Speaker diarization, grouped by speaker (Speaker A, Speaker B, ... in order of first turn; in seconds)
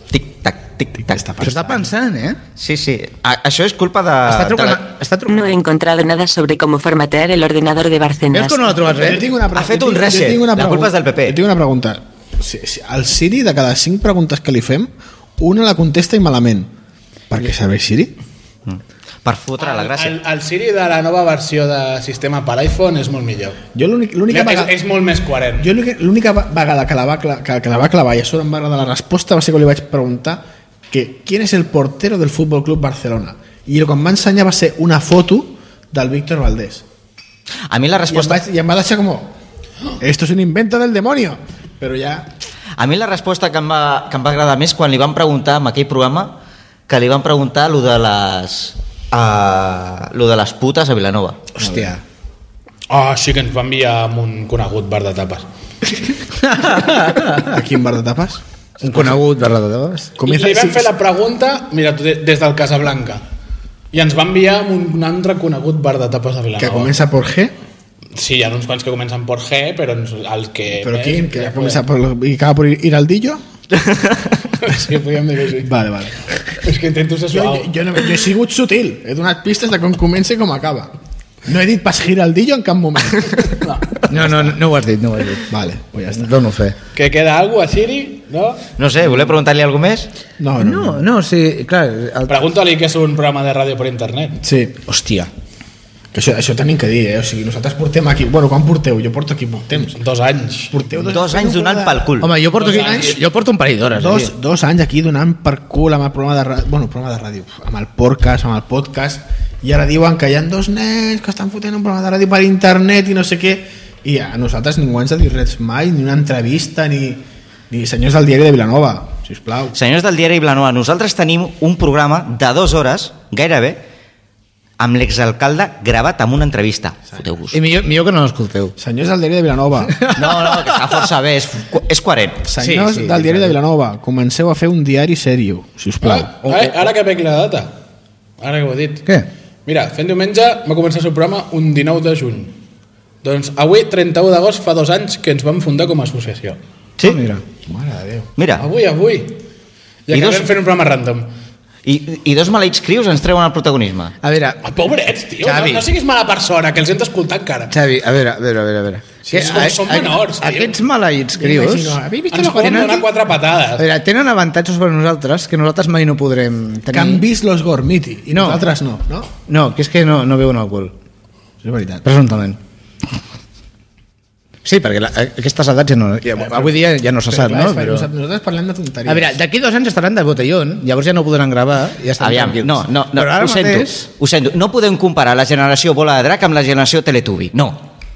Speaker A: 0.1-1.2, 2.5-4.8, 9.5-11.4, 18.7-20.2, 37.7-38.4, 42.8-51.4, 73.8-74.2, 88.8-90.1, 101.0-102.3, 119.7-123.8, 124.8-127.6, 130.1-132.4, 148.4-148.7, 150.1-150.5, 151.8-154.1, 182.2-187.9
Speaker B: 1.0-1.9, 8.9-16.7, 17.3-18.1, 23.7-24.7, 25.6-36.8, 38.1-39.3, 40.0-42.3, 51.6-51.9, 57.2-58.4, 60.1-60.9, 66.6-67.5, 70.8-73.4, 75.6-76.3, 77.3-80.9, 81.4-83.6, 84.2-84.5, 85.5-86.4, 90.4-91.0, 94.4-94.8, 96.1-100.0, 100.7-103.1, 103.9-119.7, 128.8-130.0, 132.4-136.3, 147.7-148.3, 159.3-159.7, 161.4-163.1, 166.9-169.3, 171.6-172.0, 176.4-179.3
Speaker C: 1.4-2.4, 4.2-5.5, 8.3-9.2, 51.6-52.0, 56.4-57.5, 58.8-60.1, 84.1-85.5, 86.1-86.8, 90.6-92.3, 94.9-95.3, 102.2-104.3, 127.5-128.7, 130.0-130.8, 132.6-133.6, 136.4-136.9, 147.0-147.4, 154.2-154.6, 155.4-155.9, 157.7-162.0, 162.5-163.0, 163.8-167.2, 168.3-168.6, 169.4-170.9, 172.0-172.6, 174.6-178.1, 179.1-184.0
Speaker D: 5.3-8.8
Speaker E: 19.6-23.6, 24.3-25.7, 52.9-55.5, 60.2-63.2, 63.9-66.9, 68.1-71.8, 74.5-75.7, 76.6-77.7, 83.5-84.0, 86.9-88.7, 92.3-94.4, 99.9-100.7, 102.5-103.2, 136.0-137.7, 138.4-139.1, 139.7-142.6, 143.2-146.6, 148.6-149.4, 150.1-151.3, 154.6-157.7, 159.3-160.8, 162.3-163.8